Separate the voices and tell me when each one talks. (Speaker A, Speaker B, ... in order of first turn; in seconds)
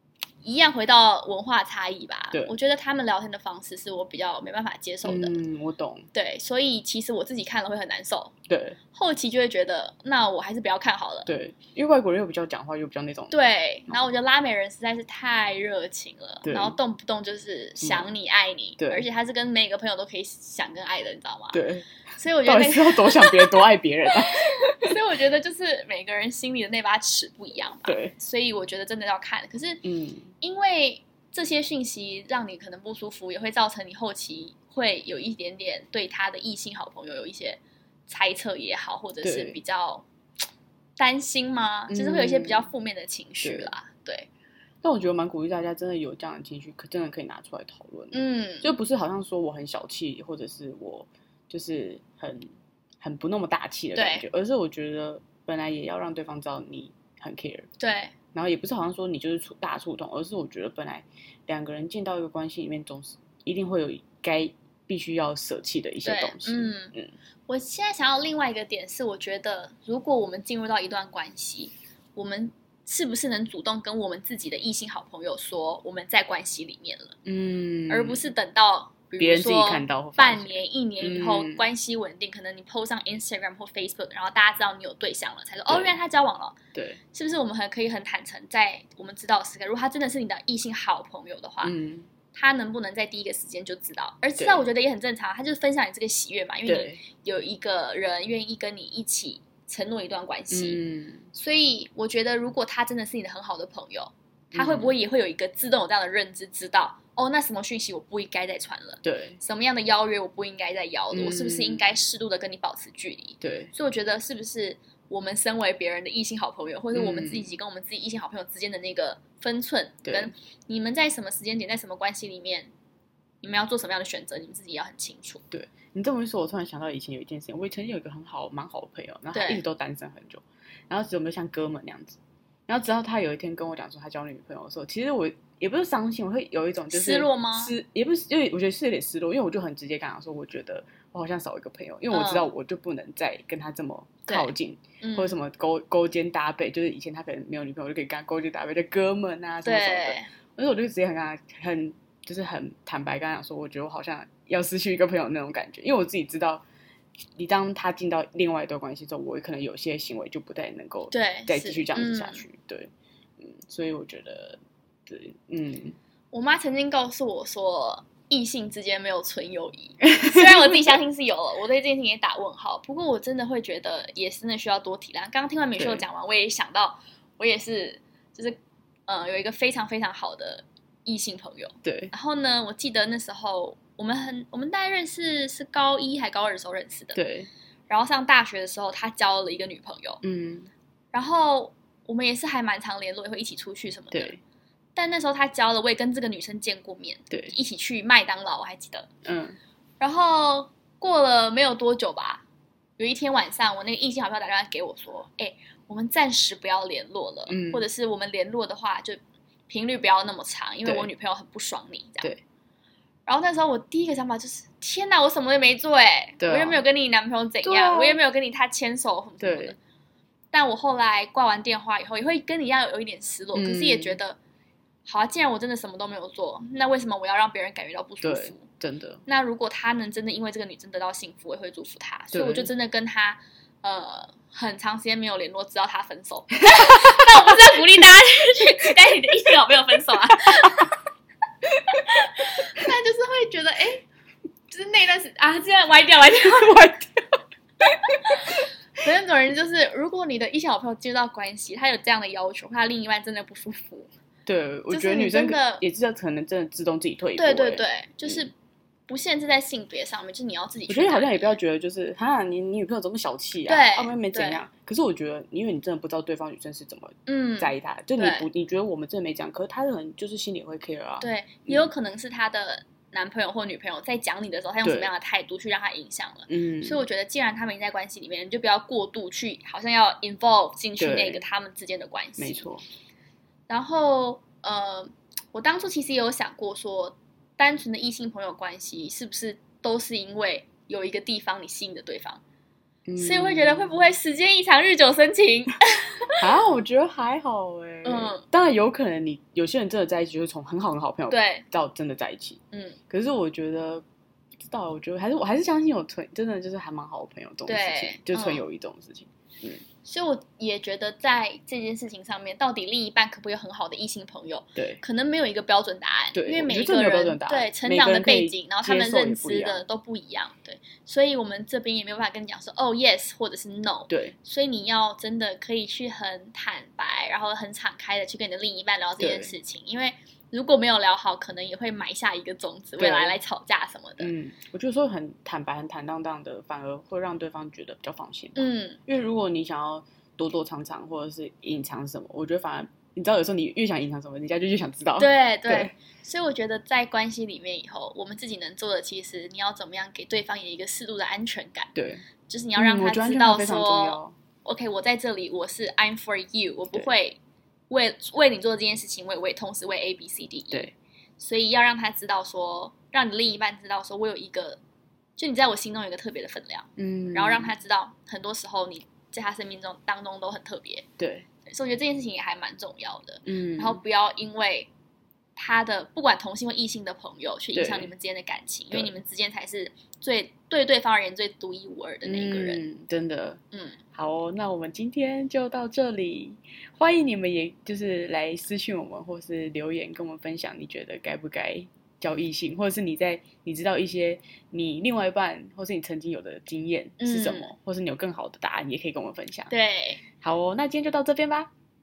Speaker A: 0.4-5.4, 6.1-8.3, 8.9-11.3, 13.3-21.6, 22.2-23.6, 24.3-29.8, 30.4-40.0, 41.0-44.3, 48.1-48.7, 53.9-54.2, 57.8-58.1, 66.0-66.9, 67.5-77.2, 77.9-86.5, 87.1-91.7, 92.3-122.7, 123.4-125.4, 129.3-129.6, 136.9-137.7, 142.1-142.5, 144.3-145.4, 149.6-150.3, 161.1-162.4, 166.3-187.2, 187.9-190.2, 191.1-194.3, 194.9-199.1, 200.0-202.4, 203.0-212.3, 213.2-219.8, 220.5-224.4, 225.1-228.6, 229.3-240.9, 241.9-244.0, 244.7-246.9, 248.1-254.1, 254.9-255.8, 257.4-258.5, 259.1-261.6, 263.7-264.6, 267.3-268.5, 271.2-282.6, 283.7-292.4, 293.2-296.4, 298.0-298.4, 301.3-301.6, 302.7-303.0, 307.7-308.6, 310.0-334.3, 338.6-339.0, 345.2-351.9, 352.5-357.4, 357.9-364.8, 365.4-371.1, 371.6-374.9, 375.6-382.8, 383.7-384.0, 397.2-397.7, 399.7-400.2
Speaker B: 5.0-6.0, 8.5-8.8, 11.2-13.3, 16.4-16.8, 17.8-18.1, 18.8-19.0, 21.5-21.9, 22.4-24.9, 27.8-28.1, 29.8-30.3, 39.2-39.6, 41.9-42.7, 43.4-43.7, 44.8-52.5, 53.0-57.7, 58.3-67.1, 77.2-78.2, 79.2-81.7, 85.7-86.0, 86.7-87.0, 91.6-92.1, 94.4-94.7, 96.7-97.0, 100.5-101.3, 104.5-105.0, 109.0-109.4, 111.1-112.0, 113.4-113.7, 116.9-117.5, 120.0-120.3, 125.5-156.6, 157.4-166.0, 175.8-176.1, 181.8-182.1, 187.1-187.5, 190.2-190.7, 194.1-194.4, 199.2-199.6, 207.5-207.8, 210.8-211.1, 216.4-216.8, 217.6-218.2, 219.4-219.8, 223.5-224.2, 228.2-229.2, 232.3-232.7, 236.8-237.3, 246.4-247.2, 254.4-258.5, 260.9-271.9, 274.8-275.1, 276.5-277.0, 281.0-281.4, 282.4-282.8, 293.1-294.1, 296.4-304.0, 304.6-309.8, 314.8-315.0, 316.3-319.8, 324.1-324.3, 329.2-329.5, 333.0-333.4, 334.2-345.9, 351.9-352.2, 352.8-354.3, 367.0-367.7, 371.2-371.4, 373.4-374.0, 377.7-378.1, 382.2-383.6, 384.1-399.7, 400.4-401.7